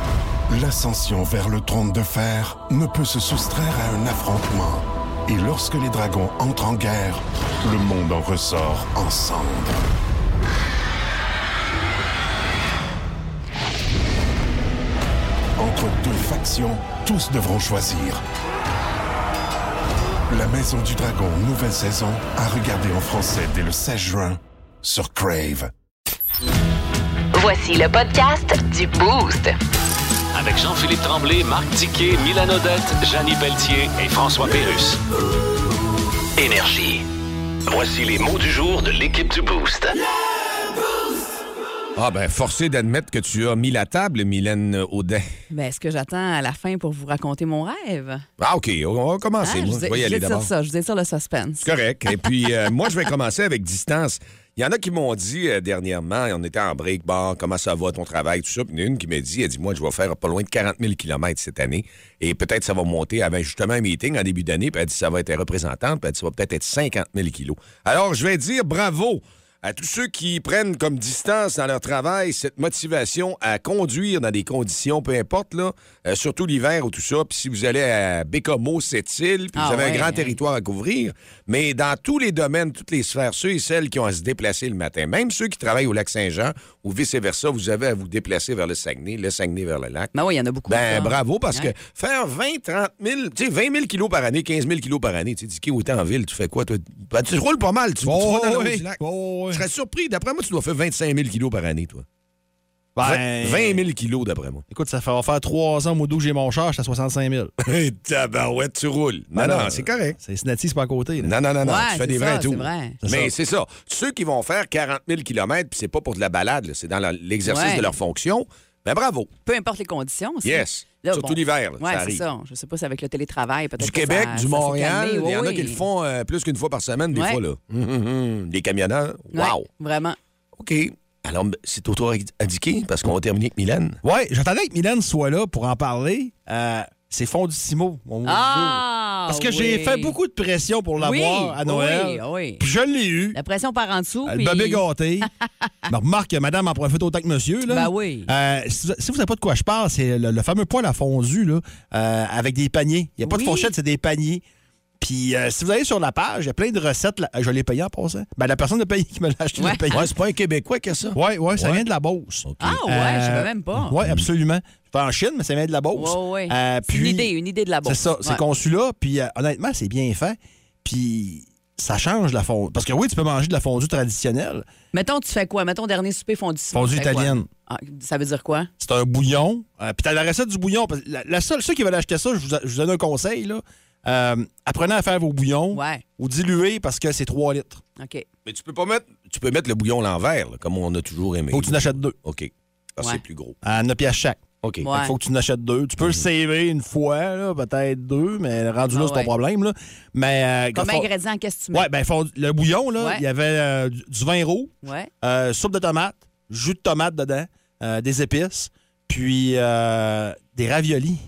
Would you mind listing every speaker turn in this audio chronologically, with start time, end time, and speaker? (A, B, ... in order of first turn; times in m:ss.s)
0:00.5-0:09.8 A
0:15.6-0:18.2 A
0:20.3-0:25.7 A
0:27.3-0:29.5 B
0:30.3-0:35.0 C
0:36.4-0:37.0 C
0:37.7-0:39.9 C
0:42.0-0:45.3 D
0:45.5-0:48.2 E
0:48.4-0:50.5 D
0:49.4-0:51.7 E
0:51.6-1:30.1 D
1:19.5-1:20.4 E
1:30.1-1:31.7 E
1:30.7-1:42.0 D
1:38.0-1:39.6 F
1:42.9-1:43.8 F
1:43.0-1:44.6 D
1:44.7-1:47.5 F
1:47.6-1:50.2 D
1:49.3-1:51.3 F
1:51.2-1:59.3 D
1:51.6-1:53.0 E
1:53.0-1:53.3 F
1:57.4-1:57.9 E
1:59.4-2:05.8 E
2:00.4-2:02.2 D
2:03.8-2:09.7 D
2:07.1-2:07.4 E
2:09.3-2:10.2 E
2:10.6-2:14.0 D
2:14.0-2:23.4 F
2:18.2-2:20.2 E
2:21.0-2:22.6 E
2:23.3-2:24.8 E
2:24.2-2:25.3 F
2:25.9-2:34.4 F
2:27.7-2:28.3 E
2:33.2-2:33.7 E
2:35.0-2:40.1 F
2:39.6-2:39.9 E
2:39.9-2:41.8 D
2:41.1-2:47.3 F
2:42.4-2:42.8 D
2:42.6-2:44.0 E
2:45.9-2:48.4 E
2:47.8-2:54.6 F
2:54.9-2:58.7 E
2:56.7-2:57.5 F
2:58.8-3:07.8 F
3:05.7-3:06.0 E
3:08.0-3:08.2 E
3:08.4-3:13.5 D
3:11.5-3:12.1 F
3:13.6-3:21.1 F
3:14.6-3:14.9 D
3:14.8-3:15.1 E
3:18.9-3:19.3 E
3:20.7-3:21.9 E
3:21.7-3:31.2 F
3:24.8-3:25.1 E